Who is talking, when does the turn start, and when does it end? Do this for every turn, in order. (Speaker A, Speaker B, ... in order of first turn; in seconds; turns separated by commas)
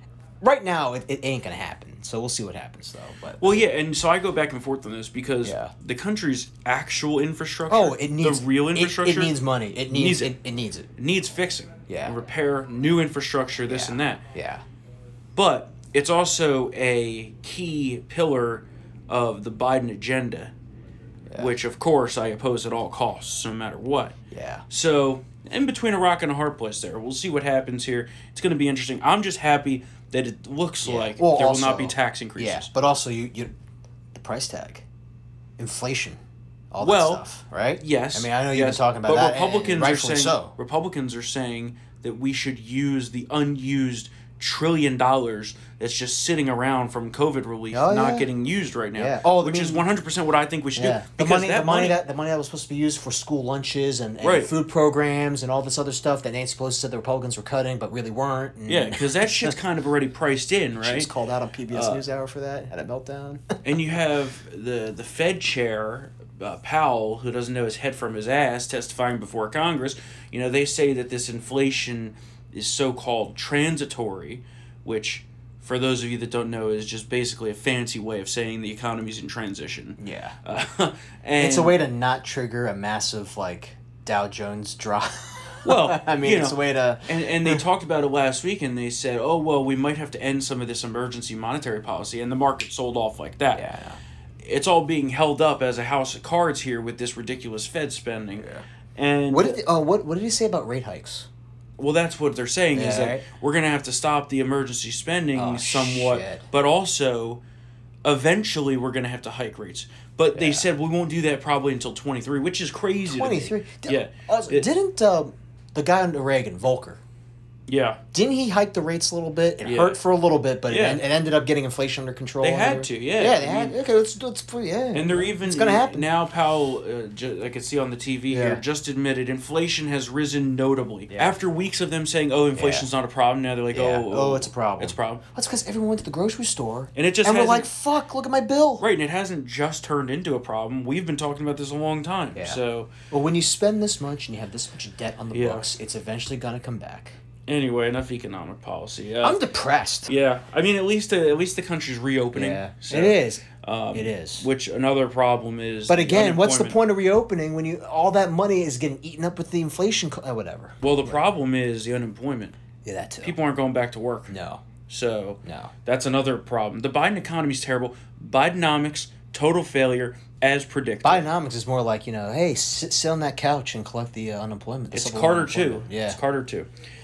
Speaker A: 0.4-3.7, Speaker B: 3.4-9.3, Speaker A: 5.4-5.7, Speaker A: 7.7-10.9, Speaker B: 9.9-10.3, Speaker B: 11.0-14.2, Speaker A: 11.9-12.2, Speaker A: 13.7-14.6, Speaker B: 15.4-20.5, Speaker A: 21.3-21.5, Speaker B: 21.4-24.2, Speaker A: 24.3-24.7, Speaker B: 24.7-32.7, Speaker A: 30.8-33.5, Speaker A: 34.1-34.9, Speaker A: 35.6-36.2, Speaker A: 36.7-40.5, Speaker B: 36.8-37.2, Speaker B: 37.8-52.0, Speaker A: 47.7-48.3, Speaker A: 49.0-49.9, Speaker A: 50.8-59.5, Speaker B: 54.2-54.5, Speaker B: 58.7-61.1, Speaker A: 60.8-63.4, Speaker B: 61.7-62.0, Speaker B: 63.6-81.8, Speaker A: 80.0-80.4, Speaker A: 81.4-87.6, Speaker B: 85.6-93.7, Speaker A: 93.5-94.0, Speaker B: 94.4-99.6, Speaker A: 99.3-101.3, Speaker B: 101.8-107.4, Speaker A: 102.7-103.2, Speaker A: 105.3-106.4, Speaker B: 108.0-114.7, Speaker A: 110.3-110.7, Speaker A: 113.0-117.0, Speaker B: 117.7-118.0, Speaker A: 118.1-126.1, Speaker B: 119.6-120.0, Speaker B: 120.7-121.0, Speaker B: 122.4-123.8, Speaker B: 124.9-135.2, Speaker A: 128.3-128.6, Speaker A: 131.1-131.4, Speaker A: 132.6-132.9, Speaker A: 133.7-138.8, Speaker B: 136.9-137.7, Speaker B: 138.8-142.9, Speaker A: 142.3-147.2, Speaker B: 145.3-145.7, Speaker B: 147.5-149.4, Speaker A: 149.2-150.1, Speaker B: 150.1-156.8, Speaker A: 152.3-154.5, Speaker A: 155.9-161.2, Speaker B: 160.8-162.6, Speaker A: 162.8-163.4, Speaker B: 163.2-164.3, Speaker A: 164.3-164.6, Speaker B: 164.9-171.3, Speaker A: 165.4-165.7, Speaker A: 171.0-176.2, Speaker B: 174.9-176.7